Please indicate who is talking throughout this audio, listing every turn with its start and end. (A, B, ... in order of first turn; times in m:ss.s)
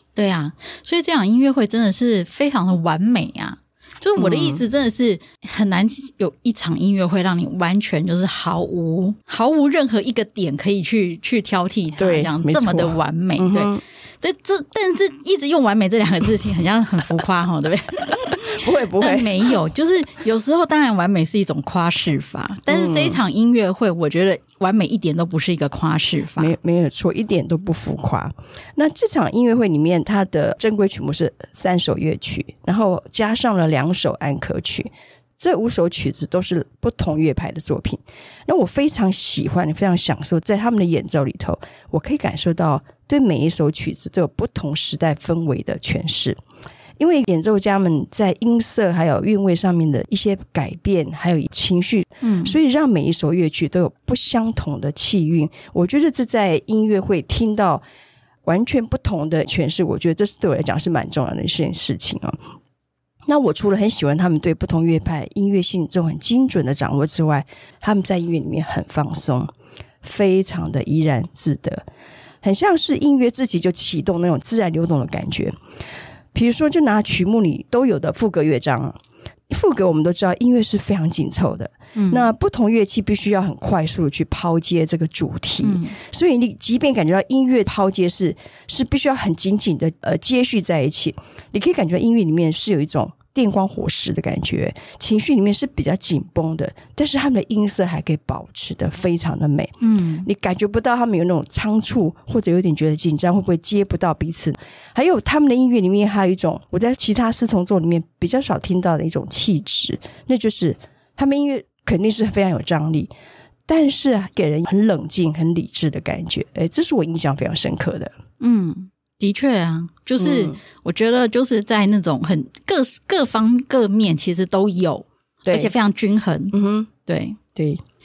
0:00.2-0:26.5 A
0:04.2-0:04.6 B
0:12.0-0:13.8 B
0:18.3-0:19.5 B
0:22.7-0:23.2 B
0:26.4-0:46.4 B
0:47.0-0:57.8 B
0:52.2-0:52.6 A
0:58.4-1:02.4 B
1:03.3-1:11.8 B
1:12.4-1:15.6 B
1:16.3-1:19.0 B
1:19.5-1:53.1 B
1:21.9-1:22.3 A
1:25.6-1:26.0 A
1:39.8-1:40.3 A
1:53.7-1:58.1 B
1:58.4-2:07.4 A
2:00.2-2:00.6 B
2:05.4-2:05.7 B
2:06.5-2:06.9 B
2:07.5-2:07.8 B